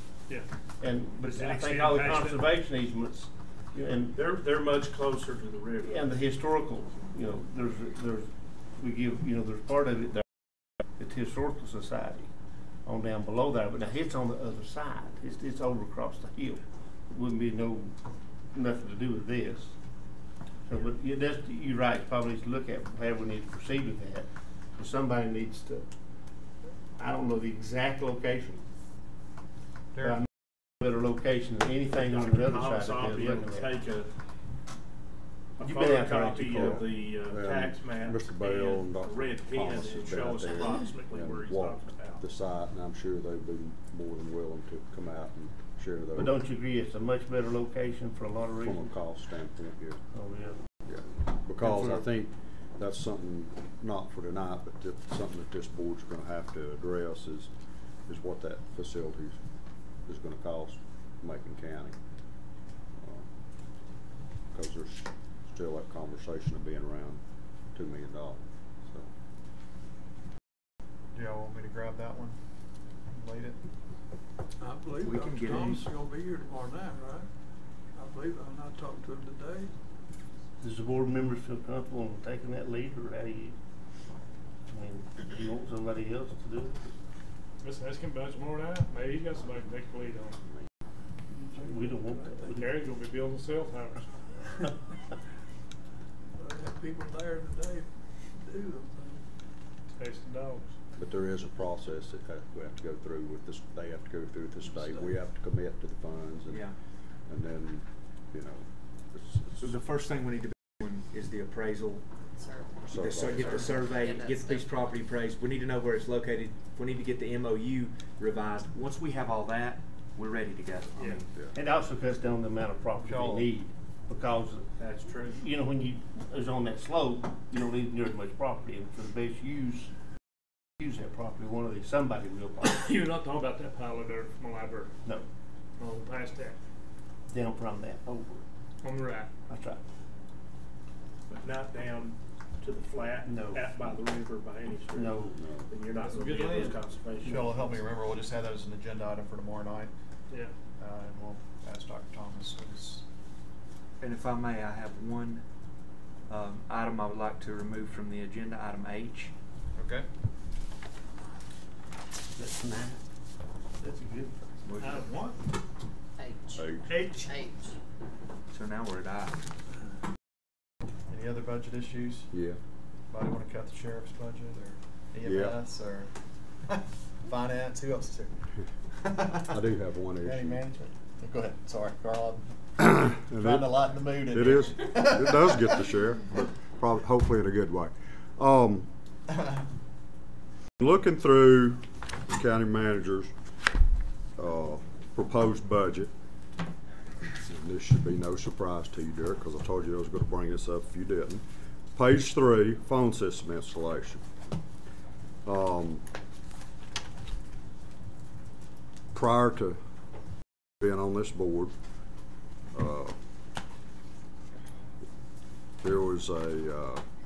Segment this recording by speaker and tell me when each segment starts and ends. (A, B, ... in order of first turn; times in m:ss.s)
0:00.8-0:04.2 A
0:01.2-0:02.3 B
0:02.1-0:02.4 C
0:04.1-0:06.1 C
0:05.8-0:10.2 A
0:11.0-0:12.3 A
0:12.8-0:17.9 A
0:18.5-0:19.7 A
0:20.6-0:25.8 A
0:27.0-0:28.6 A
0:29.9-0:30.2 D
0:30.0-0:30.3 A
0:30.8-0:33.7 A
0:32.0-0:34.1 C
0:35.6-0:42.2 C
0:35.6-0:36.8 A
0:36.5-0:46.4 E
0:46.1-0:48.9 A
0:48.6-0:50.0 E
0:50.1-0:50.6 A
0:50.8-0:57.5 E
0:51.6-0:52.0 A
0:58.1-0:59.4 E
1:00.1-1:02.0 E
1:03.0-1:03.2 E
1:04.5-1:07.2 E
1:07.7-1:09.1 E
1:11.1-1:12.4 D
1:13.1-1:13.6 D
1:14.6-1:17.3 F
1:15.0-1:15.9 G
1:18.0-1:19.7 F
1:20.6-1:23.6 A
1:24.7-1:26.9 A
1:27.6-1:30.4 B
1:31.3-1:32.5 F
1:31.5-1:32.7 A
1:32.5-1:34.1 B
1:36.4-1:39.2 F
1:40.0-1:40.7 B
1:41.0-1:46.7 E
1:44.6-1:45.2 F
1:46.5-1:46.7 G
1:47.2-1:49.8 E
1:49.6-1:52.0 G
1:52.4-1:54.9 H
1:52.9-1:53.7 E
1:52.9-2:01.2 G
2:01.0-2:01.2 B
2:01.5-2:04.7 A
2:03.0-2:03.5 D
2:04.8-2:05.4 C
2:05.3-2:09.9 A
2:10.8-2:12.8 A
2:12.6-2:14.9 B
2:15.8-2:16.6 B
2:17.3-2:18.4 A
2:18.8-2:19.3 B
2:19.5-2:19.8 A
2:21.3-2:27.8 C
2:23.2-2:23.6 A
2:24.9-2:25.4 A
2:25.4-2:25.7 E
2:26.0-2:26.8 B
2:27.2-2:27.5 A
2:27.2-2:29.9 D
2:30.8-2:33.0 D
2:34.0-2:35.4 G
2:36.3-2:39.3 G
2:39.7-2:40.0 D
2:42.3-2:43.0 A
2:43.8-2:44.4 A
2:44.6-2:45.1 G
2:44.8-2:45.1 B
2:45.1-2:45.4 C
2:46.2-2:47.7 H
2:46.6-2:46.9 E
2:46.9-2:47.4 C
2:48.5-2:49.4 G
2:51.1-2:52.3 D
2:52.3-2:52.6 E
2:53.1-2:56.1 D
2:55.2-2:55.6 E
2:56.7-2:58.3 D
2:59.0-2:59.6 D
2:59.5-3:00.6 E
3:00.2-3:02.4 D
3:02.8-3:08.9 E
3:03.4-3:05.9 D
3:10.8-3:13.3 E
3:14.4-3:16.1 E
3:17.4-3:24.2 E
3:25.4-3:26.0 E
3:29.1-3:29.8 E
3:30.8-3:31.7 E
3:32.7-3:33.2 E
3:35.8-3:37.0 E